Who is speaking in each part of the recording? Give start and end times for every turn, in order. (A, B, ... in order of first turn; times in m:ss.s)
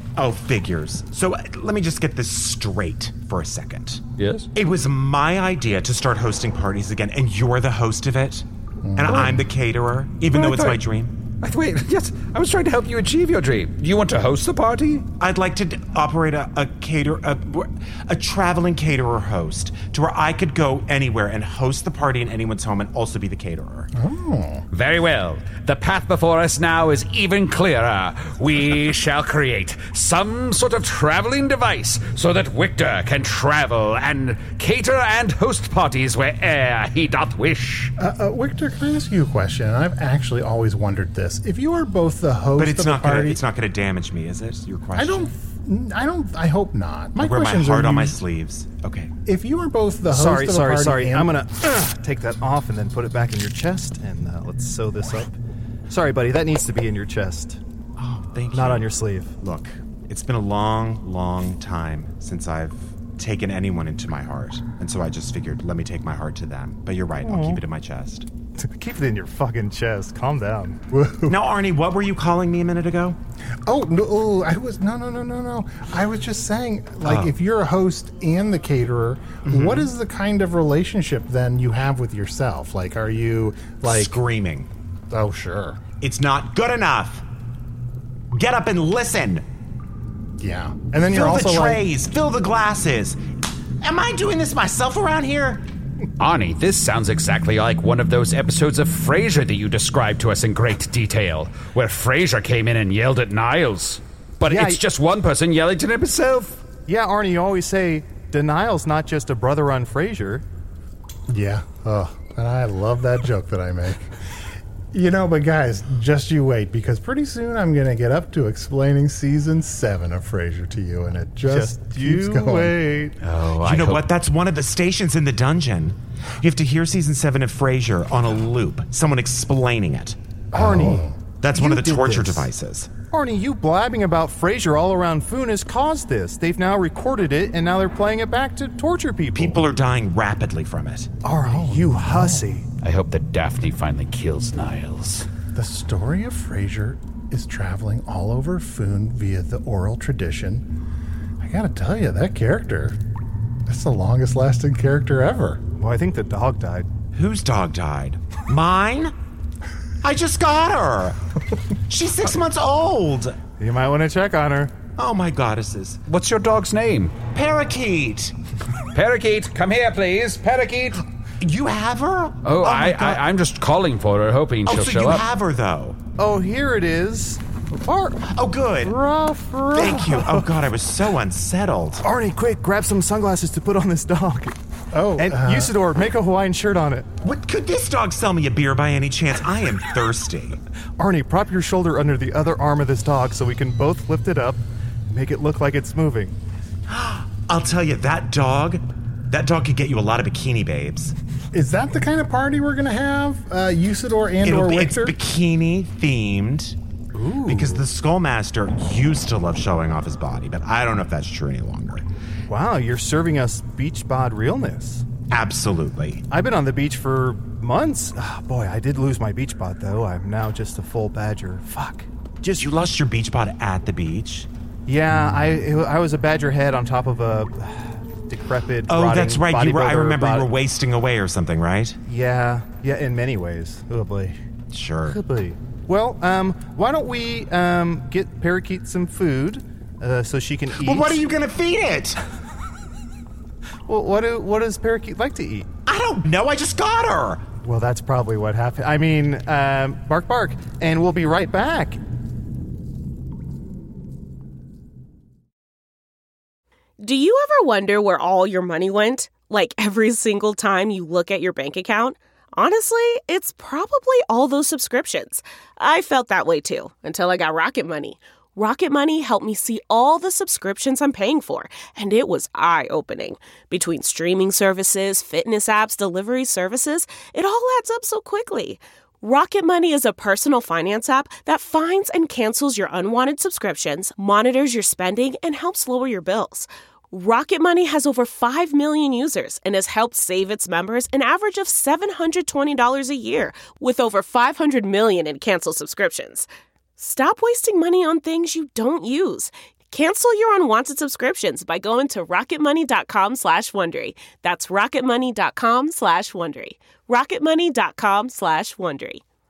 0:00.2-0:04.0 A
0:04.2-0:04.5 B
0:04.5-0:11.1 A
0:08.8-0:09.4 C
0:10.3-0:10.8 B
0:11.4-0:15.1 B
0:15.2-0:23.9 A
0:23.9-0:24.6 C
0:24.7-0:37.9 B
0:38.0-0:43.4 C
0:42.6-0:45.3 A
0:45.0-0:48.2 C
0:47.2-0:49.1 A
0:49.3-0:51.3 C
0:50.1-0:55.3 D
0:55.9-0:57.6 D
0:58.0-0:58.9 A
0:58.5-0:59.3 D
0:59.4-1:08.3 A
1:07.2-1:07.6 D
1:08.6-1:10.8 D
1:10.9-1:11.4 C
1:11.3-1:13.2 A
1:13.7-1:24.2 C
1:17.0-1:17.3 A
1:19.4-1:19.9 A
1:23.8-1:24.7 A
1:25.1-1:25.8 C
1:26.0-1:27.2 A
1:28.3-1:29.4 A
1:30.4-1:31.8 C
1:31.1-1:33.2 A
1:33.8-1:35.6 A
1:36.2-1:46.6 B
1:44.5-1:44.8 D
1:46.9-1:50.4 D
1:51.3-1:54.1 C
1:54.9-2:02.8 C
2:01.5-2:03.1 D
2:03.2-2:04.1 B
2:03.6-2:10.2 A
2:10.5-2:12.5 D
2:10.5-2:11.2 C
2:11.4-2:12.9 A
2:13.1-2:19.6 D
2:19.3-2:21.1 A
2:21.2-2:22.6 D
2:21.5-2:22.4 C
2:22.8-2:25.3 B
2:25.6-2:30.6 C
2:31.4-2:33.0 C
2:33.7-2:35.6 C
2:35.8-2:36.9 D
2:37.1-2:39.1 A
2:40.0-2:41.2 A
2:41.9-2:43.4 A
2:43.6-2:44.8 D
2:45.0-2:46.0 A
2:46.1-2:47.2 B
2:47.3-2:48.3 A
2:48.9-2:51.0 B
2:51.4-2:53.2 A
2:52.4-2:55.3 B
2:54.7-2:56.0 A
2:56.2-2:58.3 D
2:58.3-2:59.0 A
2:58.8-3:00.4 D
2:59.7-3:02.0 A
3:02.0-3:04.6 D
3:04.9-3:05.7 C
3:05.2-3:07.1 D
3:07.2-3:10.6 A
3:11.0-3:16.4 D
3:16.9-3:21.1 A
3:21.5-3:25.2 C
3:24.4-3:26.8 A
3:27.1-3:27.9 D
3:27.5-3:32.0 A
3:32.5-3:35.1 D
3:35.3-3:36.2 A
3:36.3-3:42.1 D
3:42.4-3:44.5 A
3:44.9-3:50.5 D
3:48.9-3:52.0 A
3:52.1-3:54.4 D
3:54.7-3:55.2 A
3:55.1-4:01.2 D
4:00.8-4:02.2 A
4:03.9-4:05.7 D
4:05.9-4:07.4 A
4:07.6-4:12.0 D
4:17.0-5:09.2 E